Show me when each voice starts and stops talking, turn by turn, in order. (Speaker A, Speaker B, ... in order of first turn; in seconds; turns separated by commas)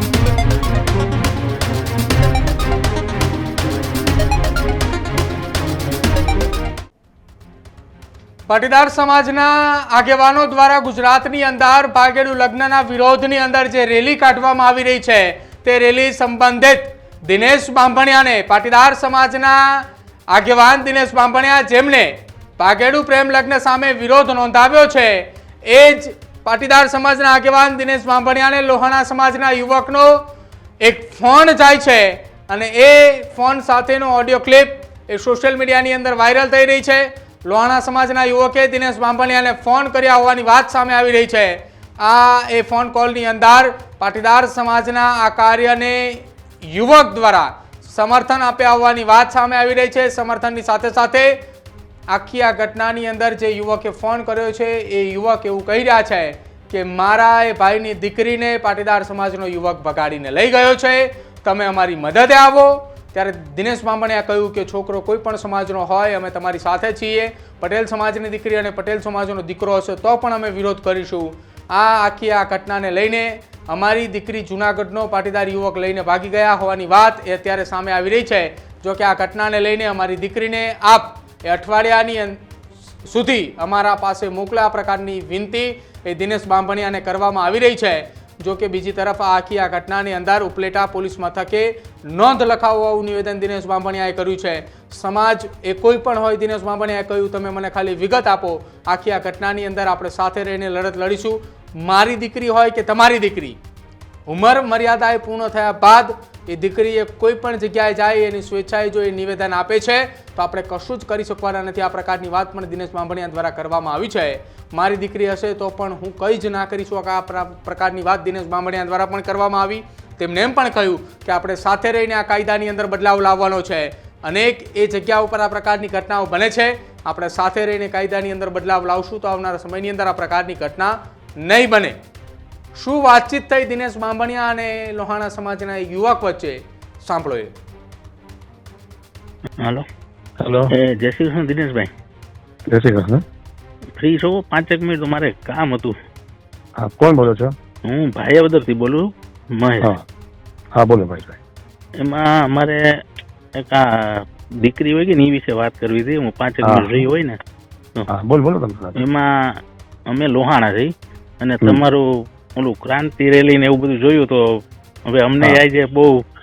Speaker A: 8.5-30.2, Speaker A: 30.8-51.4, Speaker A: 52.1-82.4, Speaker A: 83.0-103.6, Speaker A: 104.3-131.9, Speaker A: 132.7-137.5, Speaker B: 139.6-139.8, Speaker C: 140.4-140.7, Speaker B: 140.7-141.9, Speaker C: 142.7-143.2, Speaker B: 144.0-145.9, Speaker C: 146.8-147.5, Speaker B: 147.8-149.9, Speaker C: 150.7-151.4, Speaker B: 152.0-152.8, Speaker B: 153.5-157.4, Speaker C: 156.6-157.0, Speaker C: 158.1-159.0, Speaker B: 159.0-159.6, Speaker B: 160.1-166.2